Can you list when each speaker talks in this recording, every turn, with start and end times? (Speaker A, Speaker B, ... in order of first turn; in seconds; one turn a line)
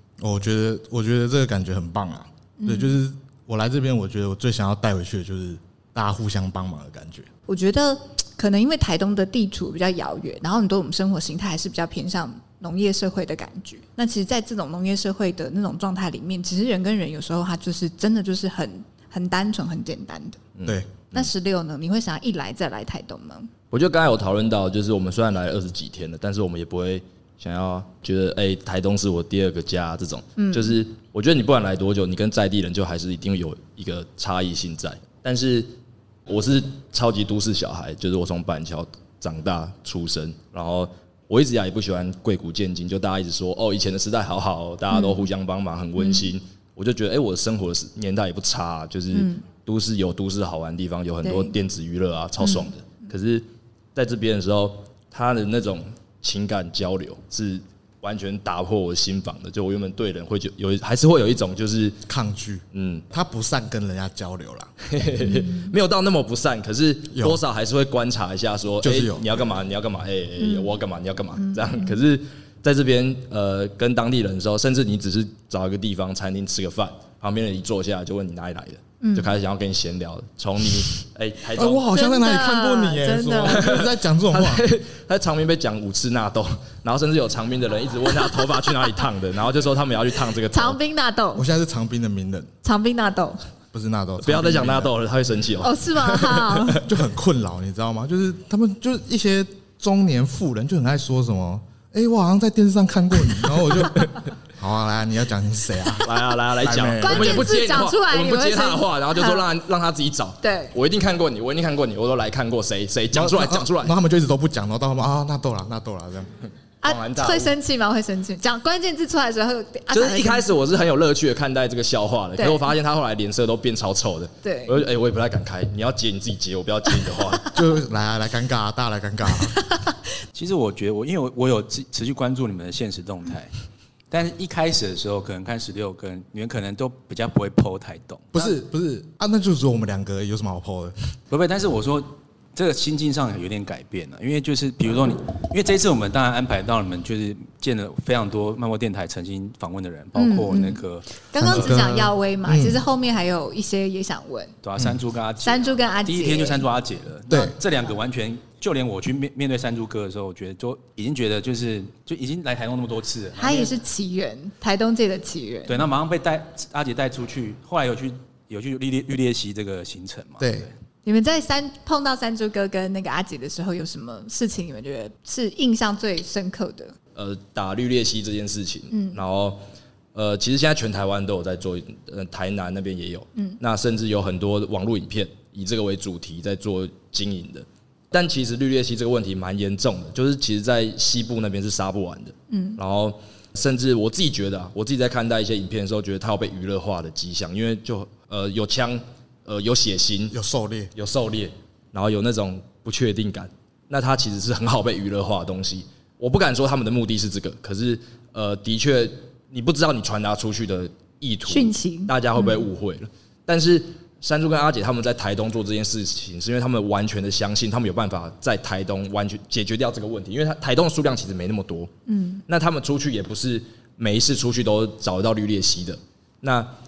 Speaker A: 0.2-7.3
Speaker B: 2.6-3.0
Speaker B: 7.5-20.4
Speaker C: 20.5-21.3
Speaker A: 20.6-20.9
Speaker B: 21.1-23.5
Speaker C: 23.7-35.7
Speaker B: 30.4-30.8
Speaker C: 36.3-62.0
Speaker B: 44.9-45.3
Speaker B: 46.0-46.3
Speaker B: 49.1-49.4
Speaker B: 51.2-51.5
Speaker B: 52.4-52.7
Speaker A: 62.1-64.7
Speaker C: 62.7-63.0
Speaker C: 64.8-81.8
Speaker B: 65.2-65.7
Speaker A: 67.1-67.4
Speaker A: 68.8-69.2
Speaker B: 70.4-70.7
Speaker B: 71.4-72.0
Speaker B: 79.0-79.3
Speaker A: 81.5-84.7
Speaker B: 81.9-83.8
Speaker C: 83.5-90.8
Speaker B: 90.5-91.4
Speaker A: 91.3-92.5
Speaker B: 92.6-93.4
Speaker A: 93.7-94.9
Speaker C: 94.2-96.9
Speaker B: 95.6-96.8
Speaker A: 96.8-107.5
Speaker C: 106.0-113.9
Speaker B: 107.0-109.5
Speaker B: 110.4-110.7
Speaker A: 113.1-116.4
Speaker B: 116.8-120.5
Speaker C: 116.8-117.5
Speaker C: 119.9-127.5
Speaker B: 122.4-122.7
Speaker B: 124.4-124.8
Speaker A: 127.5-129.6
Speaker D: 130.3-133.5
Speaker D: 134.1-138.4
Speaker A: 138.3-140.9
Speaker D: 141.3-151.7
Speaker B: 150.2-154.6
Speaker A: 151.3-152.8
Speaker D: 154.6-163.7
Speaker B: 155.4-156.6
Speaker A: 157.3-157.6
Speaker B: 163.4-165.9
Speaker D: 165.7-170.7
Speaker A: 170.4-170.7
Speaker B: 171.0-176.9
Speaker C: 177.1-179.6
Speaker B: 178.9-179.2
Speaker C: 180.1-200.3
Speaker B: 192.5-192.8
Speaker A: 200.3-200.9
Speaker C: 200.9-221.9
Speaker B: 211.5-212.6
Speaker B: 222.1-222.4
Speaker C: 222.5-226.7